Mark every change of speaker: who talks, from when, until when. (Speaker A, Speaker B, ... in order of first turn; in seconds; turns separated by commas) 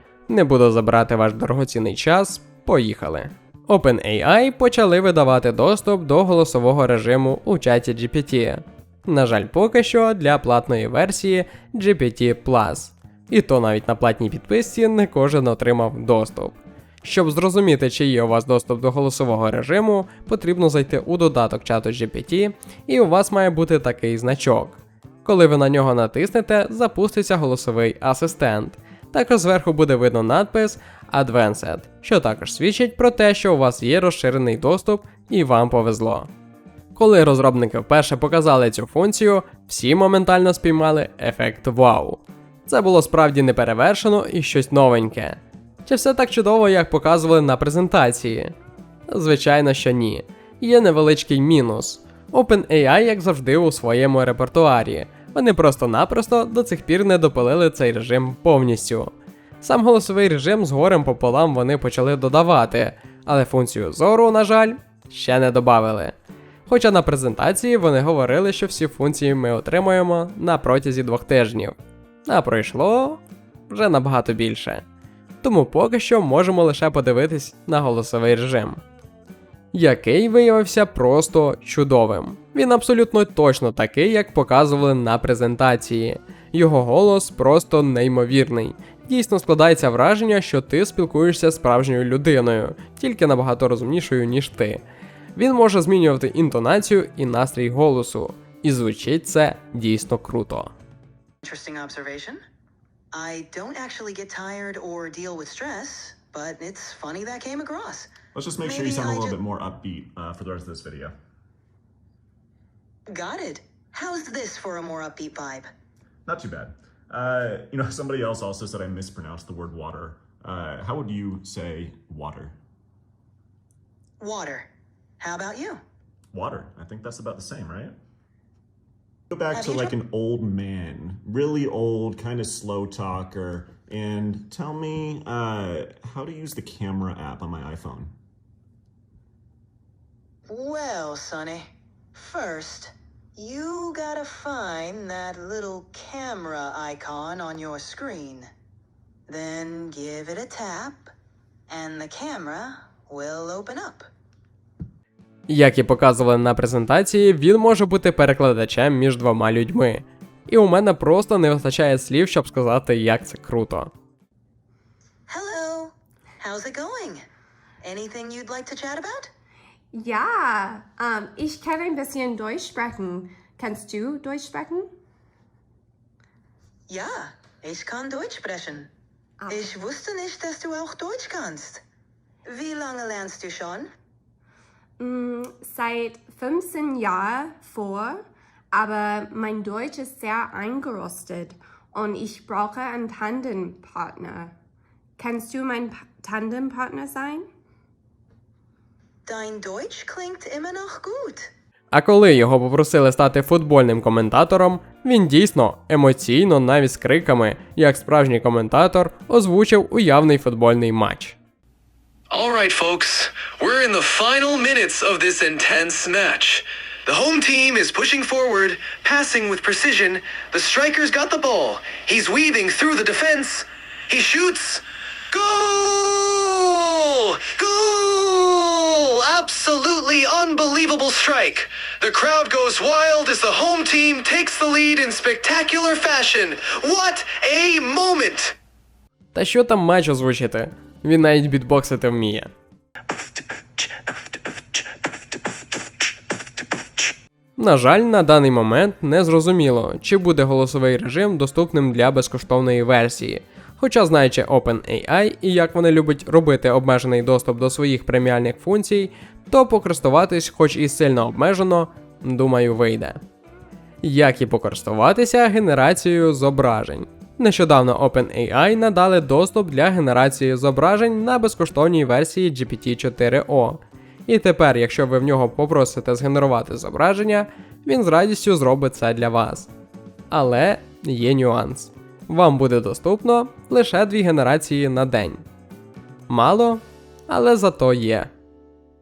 Speaker A: 0.3-36.3, Speaker A: 36.9-48.5, Speaker A: 49.1-66.1, Speaker A: 66.7-74.8, Speaker A: 75.4-78.8, Speaker A: 79.7-94.8, Speaker A: 95.3-100.7, Speaker B: 101.4-102.4, Speaker B: 103.1-109.3, Speaker C: 108.3-111.1, Speaker B: 113.1-115.7, Speaker C: 116.2-122.5, Speaker B: 124.2-124.7, Speaker B: 125.2-125.8, Speaker C: 126.3-128.0, Speaker C: 129.3-138.1, Speaker B: 129.5-129.9, Speaker B: 140.5-148.5, Speaker B: 149.3-151.1, Speaker B: 151.7-154.1, Speaker A: 155.5-163.9, Speaker B: 165.3-167.2, Speaker B: 167.8-169.3, Speaker D: 169.9-174.9, Speaker B: 176.9-178.9, Speaker D: 179.4-179.7, Speaker B: 179.5-181.8, Speaker B: 182.4-183.9, Speaker D: 185.0-194.5, Speaker D: 195.2-197.5, Speaker B: 199.2-201.5, Speaker A: 201.9-211.3, Speaker E: 212.3-238.6, Speaker A: 239.3-242.5, Speaker A: 247.6-263.2, Speaker A: 264.0-279.7, Speaker A: 280.3-285.4, Speaker A: 286.3-288.3